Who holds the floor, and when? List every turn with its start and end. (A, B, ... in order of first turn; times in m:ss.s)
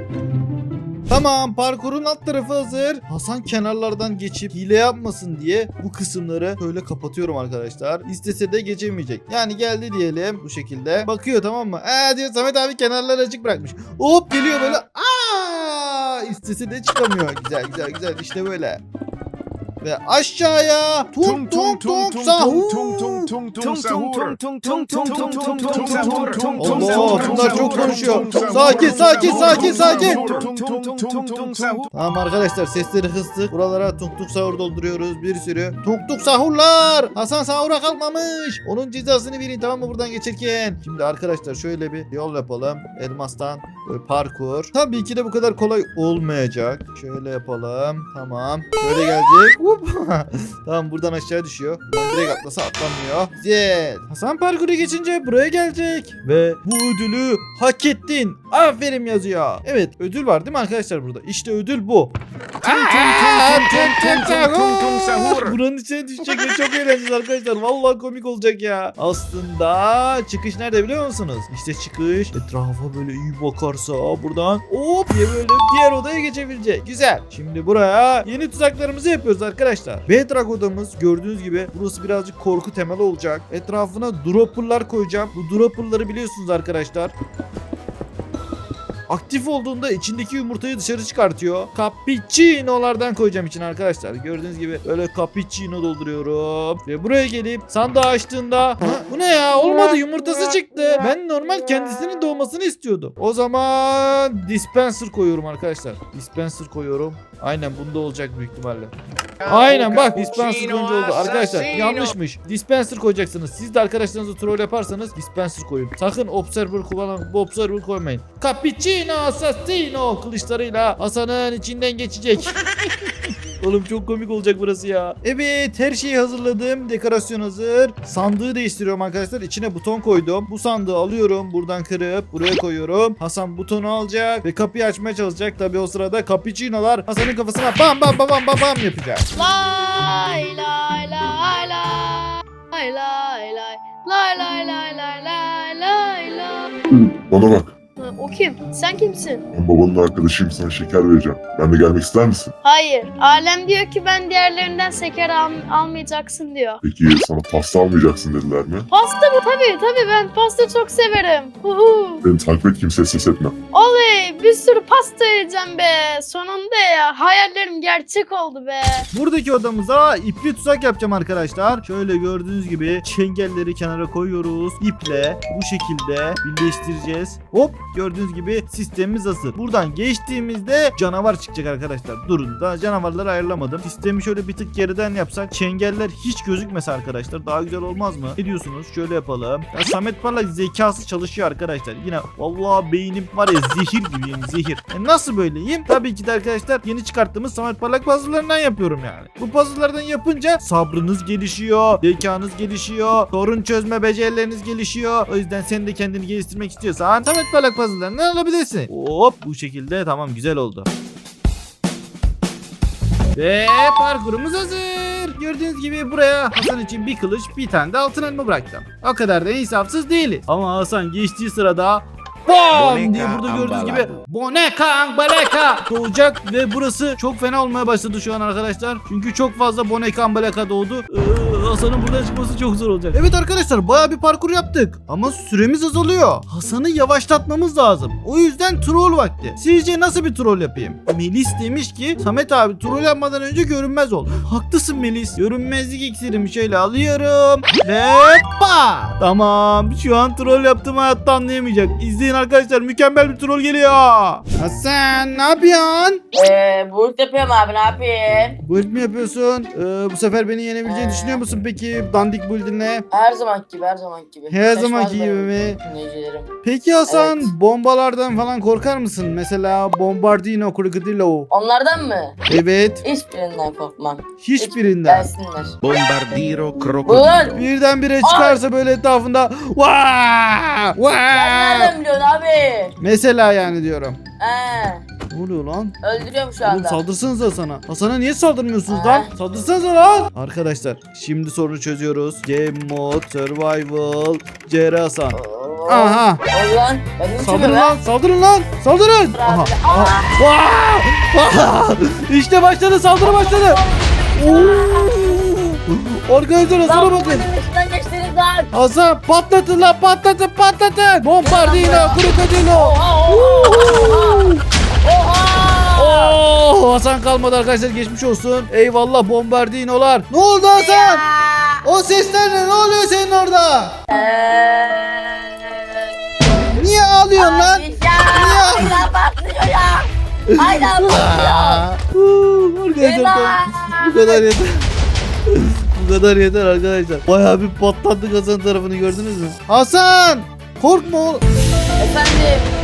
0:01.1-0:18.8 A
0:19.8-0:23.4 A
0:23.4-0:31.8 B
0:26.6-0:30.2 A
0:31.9-1:27.1 A
1:02.7-1:05.5 B
1:29.1-1:48.9 A
1:49.4-2:02.6 A
2:03.6-2:19.2 A
2:19.3-2:26.7 C
2:26.9-2:27.7 D
2:28.0-2:29.4 C
2:29.5-2:32.5 D
2:32.6-2:36.8 C
2:36.8-2:38.9 D
2:38.9-2:42.2 C
2:42.2-2:43.5 D
2:43.7-2:49.0 C
2:49.1-3:30.9 A
3:33.3-4:16.2 A
3:42.7-3:44.2 B
4:16.3-4:18.6 E
4:18.6-4:23.0 A
4:20.8-4:21.4 E
4:23.1-4:26.5 E
4:24.5-4:25.8 A
4:26.6-4:31.5 A
4:27.1-4:27.5 E
4:31.5-4:32.4 E
4:32.5-4:33.0 A
4:33.0-4:35.7 E
4:34.4-4:35.3 A
4:35.8-4:37.6 B
4:37.0-4:37.6 E
4:37.5-4:41.9 A
4:38.2-4:38.6 E
4:41.3-4:42.9 E
4:43.0-4:44.2 A
4:44.4-4:45.0 E
4:45.3-4:46.0 A
4:46.0-4:47.0 E
4:46.6-4:56.4 A
4:48.9-4:49.3 E
4:55.3-4:57.9 E
4:57.4-5:03.8 A
4:59.3-5:00.3 E
5:03.2-5:05.4 E
5:04.4-5:07.4 A
5:06.8-5:08.7 E
5:08.7-5:14.6 A
5:11.4-5:14.5 E
5:15.0-5:16.4 E
5:16.0-5:21.2 A
5:20.7-5:21.8 E
5:21.8-5:23.9 A
5:24.1-5:26.1 E
5:26.8-5:29.0 A
5:27.4-5:31.8 E
5:30.5-5:34.9 A
5:33.0-5:34.4 E
5:35.5-5:41.4 A
5:42.0-5:42.7 E